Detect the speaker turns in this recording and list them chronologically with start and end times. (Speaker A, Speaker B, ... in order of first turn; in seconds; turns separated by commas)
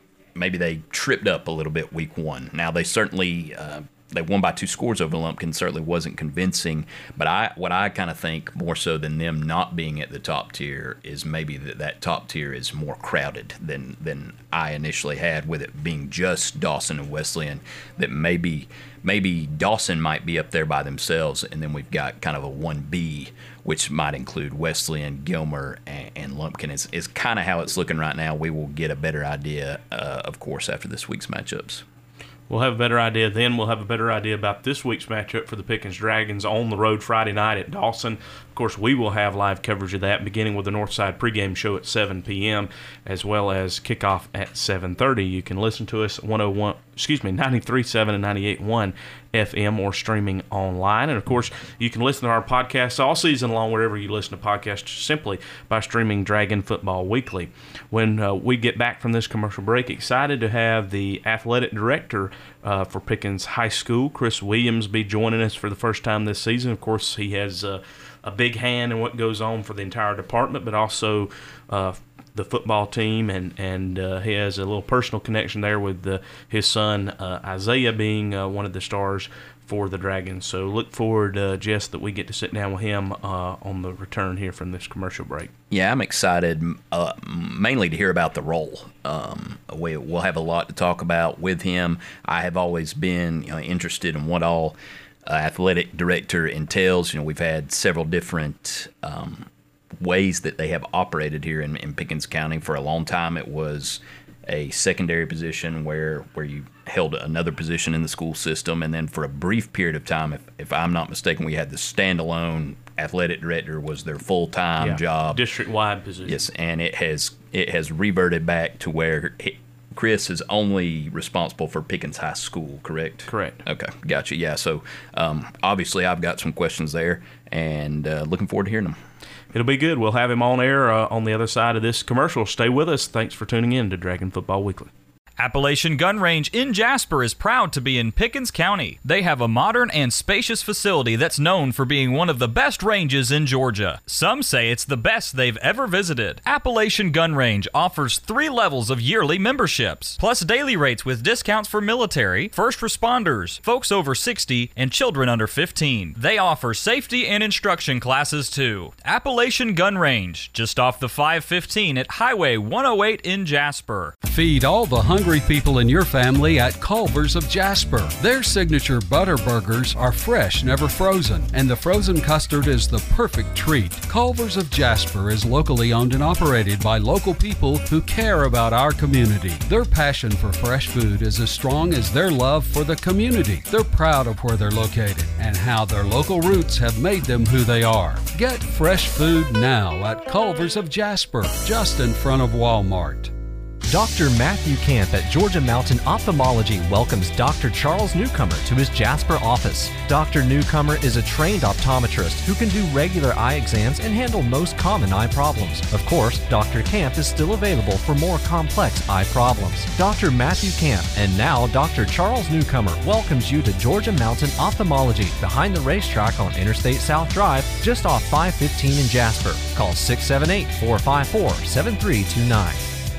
Speaker A: 0.3-31.8, Speaker B: 32.5-85.5, Speaker A: 85.7-115.4, Speaker B: 114.8-116.4, Speaker A: 116.2-129.0, Speaker B: 123.3-123.6, Speaker B: 129.5-134.9, Speaker C: 135.4-164.2, Speaker D: 164.3-193.3, Speaker E: 193.9-222.9